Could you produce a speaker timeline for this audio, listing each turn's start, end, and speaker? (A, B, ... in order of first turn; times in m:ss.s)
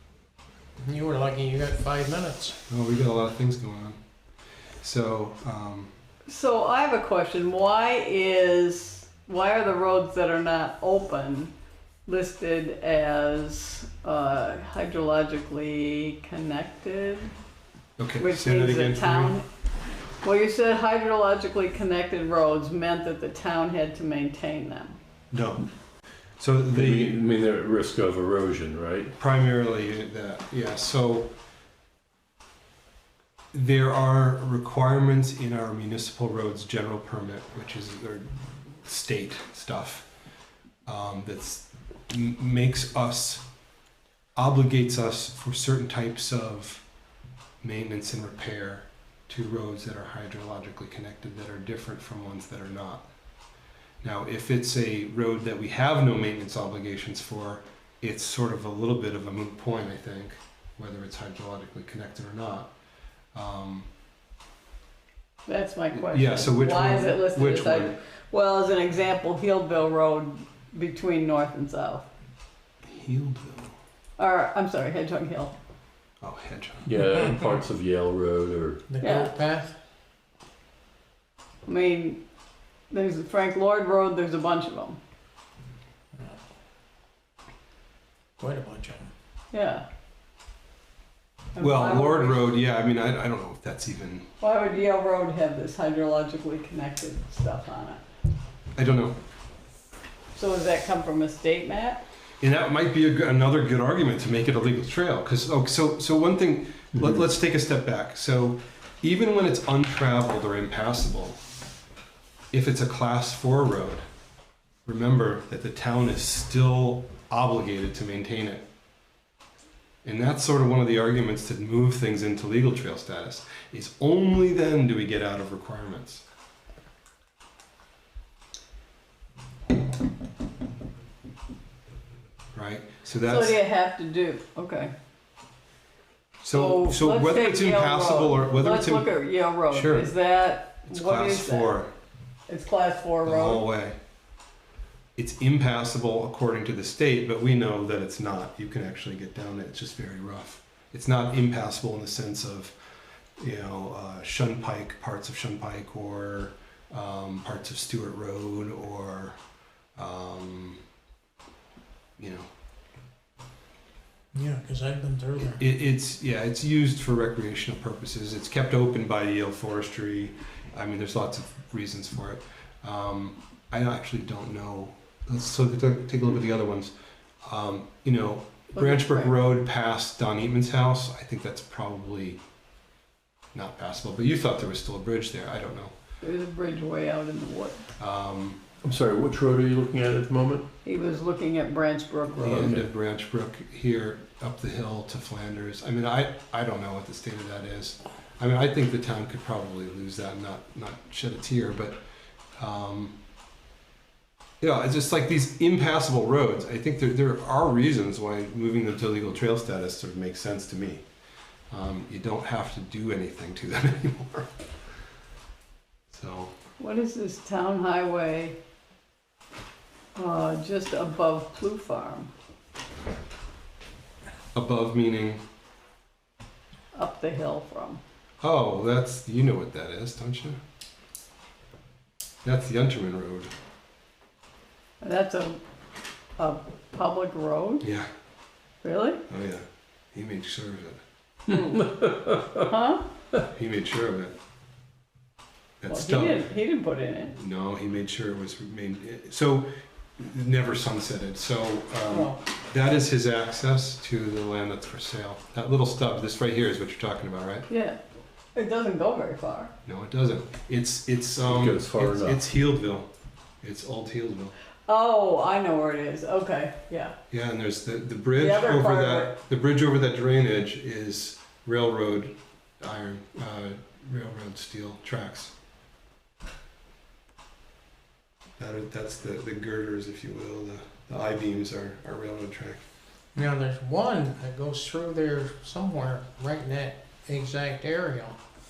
0:00.8-0:02.6 A
0:02.7-0:04.0 B
0:04.8-0:05.9 B
0:06.3-0:11.5 C
0:12.0-0:17.3 C
0:18.0-0:19.4 B
0:18.2-0:19.4 C
0:20.2-0:25.0 C
0:25.3-0:25.6 B
0:26.4-0:27.2 B
0:26.7-0:29.2 D
0:29.2-0:31.3 B
0:33.5-0:40.1 B
0:40.8-0:43.4 B
0:44.4-0:46.8 B
0:47.6-0:53.1 B
0:54.0-1:02.7 B
1:03.3-1:03.9 B
1:05.5-1:12.1 C
1:05.9-1:08.0 B
1:12.9-1:13.7 B
1:14.2-1:15.5 C
1:16.2-1:16.9 B
1:16.8-1:18.8 D
1:18.9-1:19.7 A
1:19.0-1:19.3 C
1:21.6-1:22.2 C
1:22.9-1:25.0 C
1:28.4-1:29.1 A
1:29.5-1:29.8 C
1:31.5-1:32.6 C
1:31.6-1:34.3 B
1:34.4-1:38.0 C
1:38.8-1:39.2 B
1:40.3-1:42.0 C
1:42.4-1:51.4 B
1:52.5-1:54.0 B
1:54.8-1:58.6 B
2:00.0-2:06.2 B
2:12.5-2:13.6 B
2:13.2-2:14.9 C
2:16.4-2:19.1 B
2:16.5-2:21.7 C
2:19.7-2:20.2 B
2:20.8-2:21.9 B
2:22.5-2:23.7 C
2:23.2-2:24.0 B
2:25.2-2:32.7 B
2:33.4-2:39.4 B
2:40.0-2:40.8 B
2:42.2-2:42.5 B
2:44.3-2:45.6 A
2:45.4-2:56.9 B
2:57.4-3:02.4 B
2:58.7-2:59.3 C
3:03.5-3:05.9 B
3:06.2-3:07.8 C
3:08.0-3:08.6 B
3:08.8-3:10.6 D
3:10.8-3:12.7 C
3:12.4-3:22.0 B
3:12.4-3:12.9 D
3:22.6-3:23.1 B
3:24.6-3:31.0 B
3:31.7-3:34.5 B
3:36.1-3:36.5 B
3:36.8-3:38.6 C
3:40.2-3:42.3 C
3:44.5-3:45.4 B
3:46.9-3:48.0 C
3:48.4-3:50.6 B
3:52.4-3:53.5 B
3:55.0-3:55.6 C
3:56.4-3:57.8 C
3:57.8-3:58.1 B
3:58.8-3:59.2 C
3:59.3-4:01.0 B
4:01.6-4:02.3 D
4:02.6-4:03.1 C
4:03.5-4:04.3 B
4:05.8-4:06.5 B
4:05.9-4:07.4 C
4:07.4-4:17.7 B
4:12.1-4:12.4 C
4:17.7-4:18.0 C
4:18.5-4:19.7 C
4:19.8-4:23.1 B
4:21.4-4:22.4 D
4:23.6-4:24.5 B
4:24.9-4:27.1 C
4:27.3-4:35.5 B
4:28.4-4:29.4 C
4:38.6-4:42.8 B
4:43.3-4:48.4 A